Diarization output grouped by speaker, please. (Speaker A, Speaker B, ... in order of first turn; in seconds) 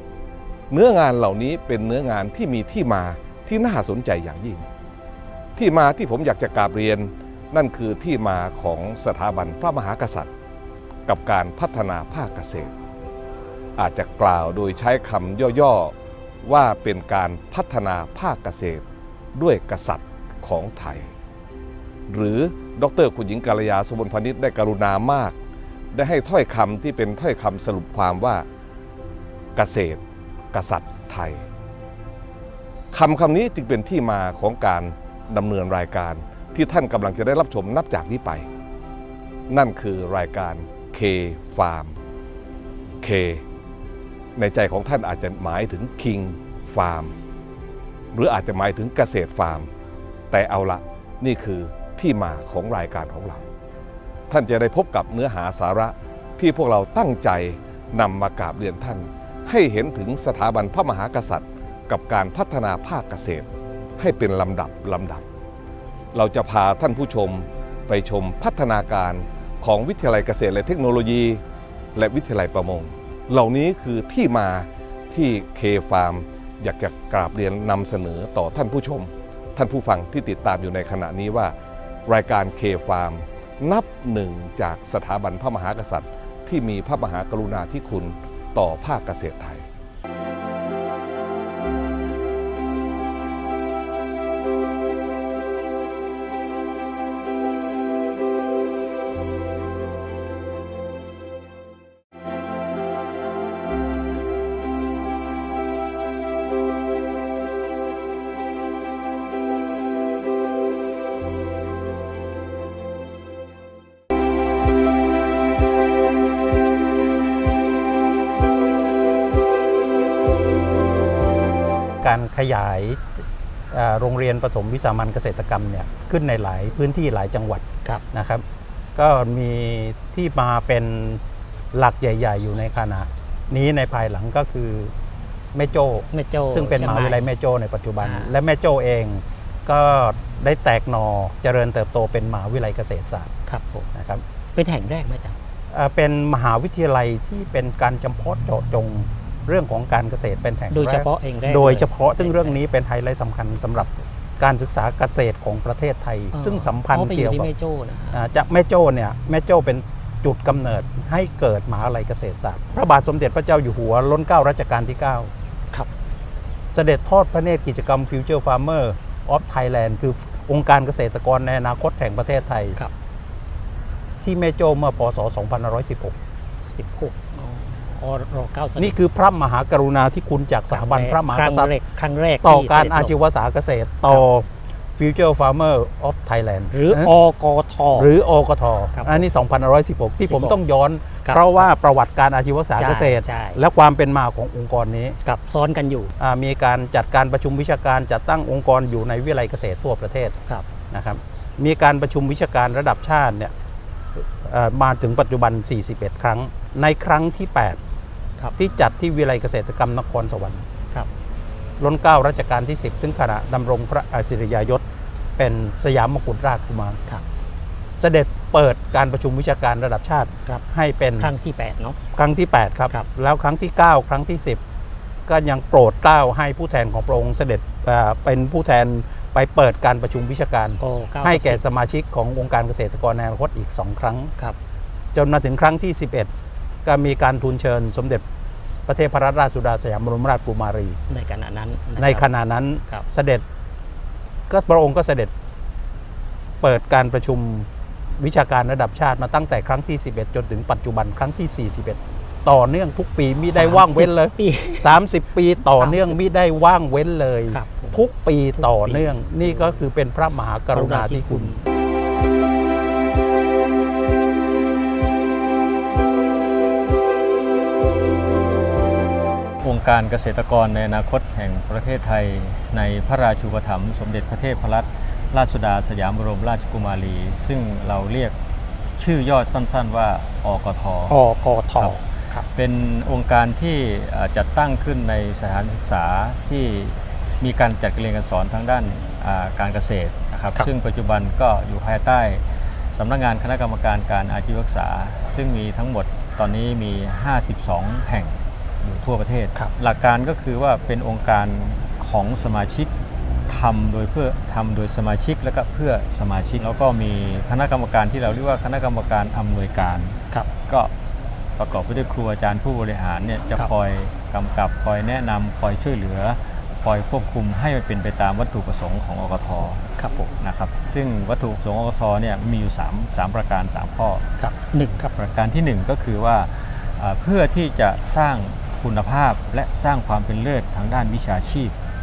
Speaker A: 0.7-4.7, 5.5-10.3, 11.1-12.7, 13.8-15.9, 16.4-21.1, 22.1-25.4, 25.9-28.4, 29.6-30.0, 30.5-31.4, 32.9-38.4, 39.5-42.0, 43.0-43.4, 44.4-47.1, 48.1-49.7, 50.3-53.4, 54.3-63.5, 64.0-65.2, 66.1-71.4, 71.9-81.5, 82.1-89.6
Speaker B: 122.0-123.1, 123.7-128.4, 128.9-131.2, 131.7-134.9, 135.5-143.3, 143.9-144.2, 145.7-157.5, 158.1-165.3, 166.7-172.8, 174.2-176.2, 178.8-181.7, 182.4-184.5, 185.0-187.1, 187.9-195.2, 196.2-200.3, 200.9-203.5, 204.2-207.8, 208.6-210.6, 211.8-214.8, 215.4-217.0, 218.0-221.3, 222.1-224.6, 225.3-234.3, 235.1-236.3, 236.8-238.2, 238.9-241.0, 242.0-243.4, 244.5-245.3, 246.6-247.7, 248.2-261.5
Speaker C: 136.1-137.3, 138.0-138.3, 143.5-143.9, 144.5-145.3, 150.7-152.6, 156.3-158.2, 176.6-178.9, 180.7-183.1, 186.7-188.1, 188.9-189.2, 190.2-190.6, 191.2-191.7, 192.8-193.6, 195.2-196.1, 221.2-222.0, 230.8-231.6, 241.1-242.3, 253.5-255.0, 255.6-256.2, 257.5-258.0, 258.6-259.8, 260.7-261.7, 281.1-282.4, 320.0-320.3, 324.4-325.1
Speaker D: 269.6-278.3, 279.0-281.2, 281.7-302.9, 303.5-310.9, 311.6-319.8, 320.4-324.2, 325.1-331.7